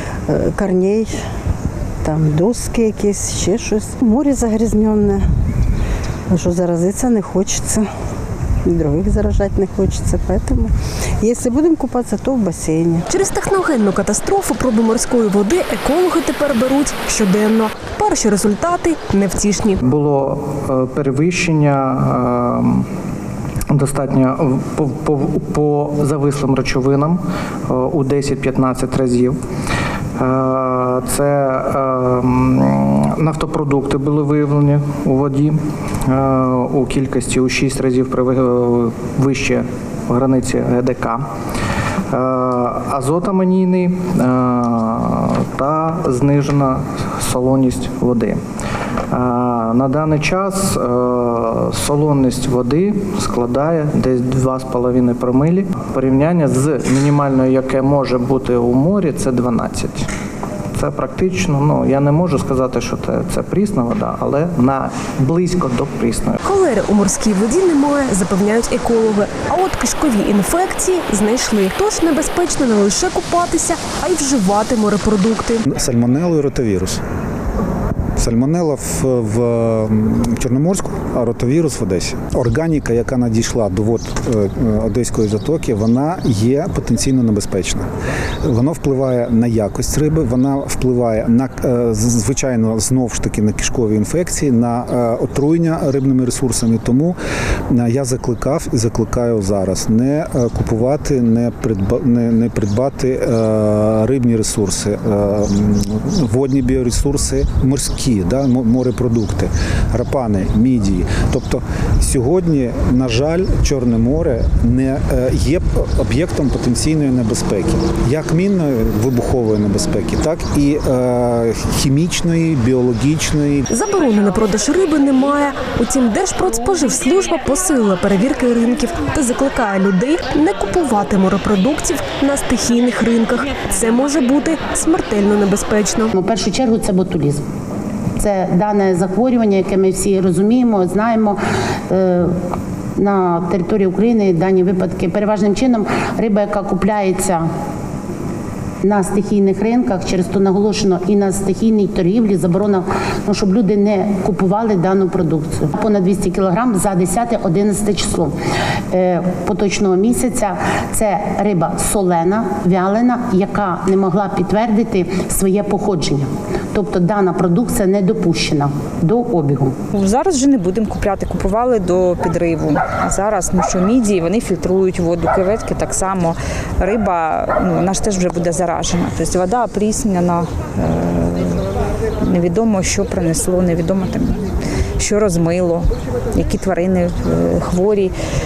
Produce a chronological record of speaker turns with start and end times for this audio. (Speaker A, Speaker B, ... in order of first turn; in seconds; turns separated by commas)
Speaker A: 0.3-1.2, Speaker A: 2.0-5.2, Speaker A: 6.3-7.9, Speaker A: 8.6-13.0, Speaker B: 13.1-19.8, Speaker C: 19.8-22.9, Speaker C: 23.7-29.4, Speaker C: 30.2-41.3, Speaker C: 42.1-48.4, Speaker C: 49.1-60.1, Speaker C: 60.8-66.4, Speaker B: 66.4-75.6, Speaker D: 75.7-77.0, Speaker D: 78.2-87.9, Speaker D: 88.4-97.2, Speaker D: 97.7-123.6, Speaker B: 123.7-136.1, Speaker E: 136.1-137.4, Speaker E: 138.2-142.3, Speaker E: 143.0-147.4, Speaker E: 148.8-158.3, Speaker E: 158.9-169.8, Speaker F: 169.9-181.6, Speaker F: 182.2-188.1